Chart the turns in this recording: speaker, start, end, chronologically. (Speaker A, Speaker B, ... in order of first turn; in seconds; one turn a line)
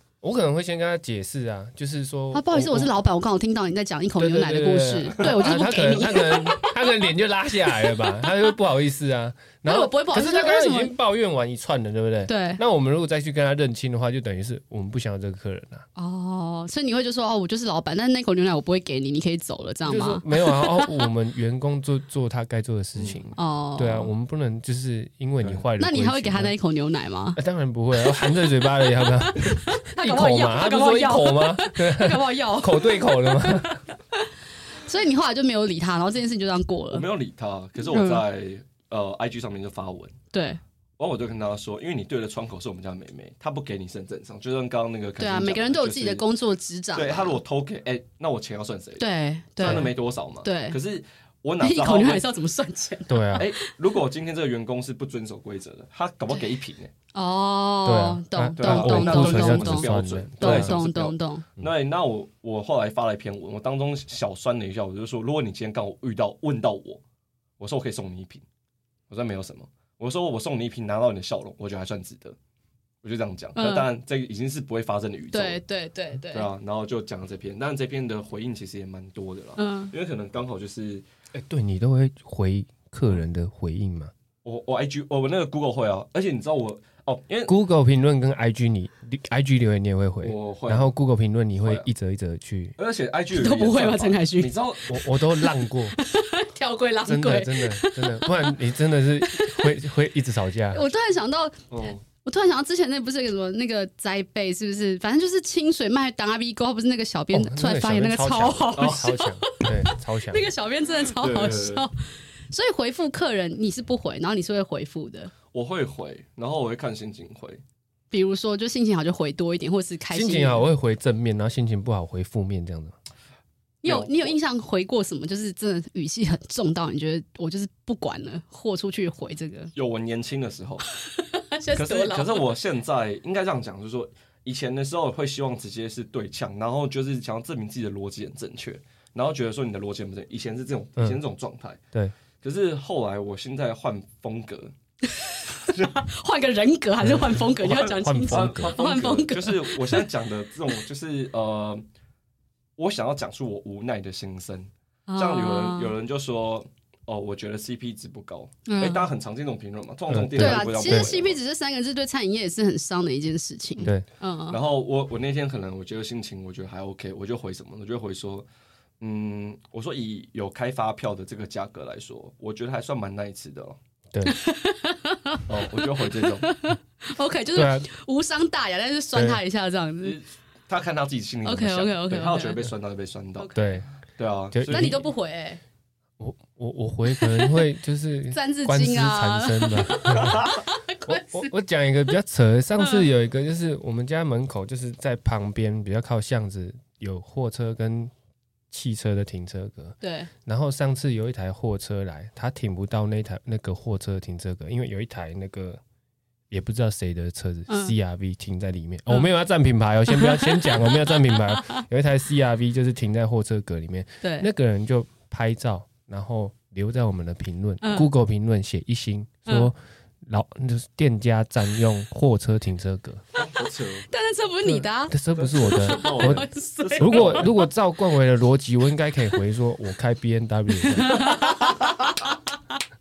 Speaker A: 0.2-2.9
Speaker B: 2.3-7.1
Speaker A: 4.2-15.9
Speaker B: 7.7-8.5
Speaker B: 9.7-10.9
Speaker B: 12.3-12.6
Speaker B: 16.0-20.9
Speaker A: 19.9-26.5
Speaker B: 23.4-24.1
Speaker B: 25.8-27.4
Speaker A: 27.4-33.8
Speaker B: 29.3-33.6
Speaker B: 34.8-37.1
Speaker C: 36.9-40.1
Speaker B: 37.8-38.2
Speaker B: 40.3-40.6
Speaker C: 41.0-46.2
Speaker B: 45.2-47.4
Speaker C: 47.0-49.0
Speaker B: 49.0-50.8
Speaker C: 49.6-52.3
Speaker A: 49.6-49.9
Speaker B: 51.6-53.7
Speaker A: 53.1-53.5
Speaker C: 53.4-56.9
Speaker B: 57.1-61.5
Speaker A: 57.9-60.8
Speaker C: 58.6-67.0
Speaker C: 67.6-68.4
Speaker C: 69.1-72.4
Speaker C: 73.0-75.6
Speaker B: 73.6-73.9
Speaker B: 75.3-76.5
Speaker C: 76.3-81.0
Speaker B: 79.6-79.9
Speaker A: 81.3-84.1
Speaker C: 84.4-87.5
Speaker A: 87.5-92.8
Speaker C: 90.2-90.9
Speaker C: 91.6-91.9
Speaker C: 92.8-95.0
Speaker B: 93.3-94.5
Speaker A: 94.9-96.0
Speaker B: 95.4-98.6
Speaker A: 97.0-100.9
Speaker B: 99.2-99.7
Speaker B: 100.7-112.0
Speaker C: 101.7-102.0
Speaker A: 107.3-110.5
Speaker C: 108.8-109.1
Speaker C: 111.1-111.8
Speaker B: 112.5-115.3
Speaker C: 115.5-117.6
Speaker B: 118.1-120.7
Speaker A: 120.1-123.0
Speaker B: 123.8-129.7
Speaker C: 123.8-124.4
Speaker C: 129.8-130.9
Speaker B: 131.1-132.4
Speaker C: 131.8-141.8
Speaker C: 142.4-144.7
Speaker B: 145.1-150.0
Speaker A: 147.0-148.8
Speaker C: 147.6-151.8
Speaker C: 152.8-161.4
Speaker B: 155.1-155.9
Speaker B: 158.7-159.1
Speaker A: 160.1-161.1
Speaker B: 160.3-164.6
Speaker C: 164.5-168.5
Speaker C: 169.0-173.8
Speaker B: 174.2-180.2
Speaker C: 175.5-176.5
Speaker A: 177.5-177.9
Speaker A: 179.1-179.4
Speaker C: 180.0-183.5
Speaker B: 181.4-182.6
Speaker B: 183.4-183.8
Speaker A: 183.6-183.9
Speaker C: 184.2-185.0
Speaker A: 184.5-185.0
Speaker B: 184.7-185.6
Speaker A: 186.2-190.5
Speaker B: 187.1-187.6
Speaker B: 188.3-191.5
Speaker A: 191.1-198.1
Speaker A: 198.7-205.8
Speaker B: 200.0-200.3
Speaker A: 206.5-223.2
Speaker B: 207.7-207.9
Speaker B: 210.1-211.8
Speaker B: 214.2-214.5
Speaker B: 217.8-218.1
Speaker C: 223.4-224.1
Speaker B: 224.1-227.5
Speaker A: 224.7-226.4
Speaker C: 225.3-227.5
Speaker A: 227.0-231.5
Speaker B: 230.8-232.8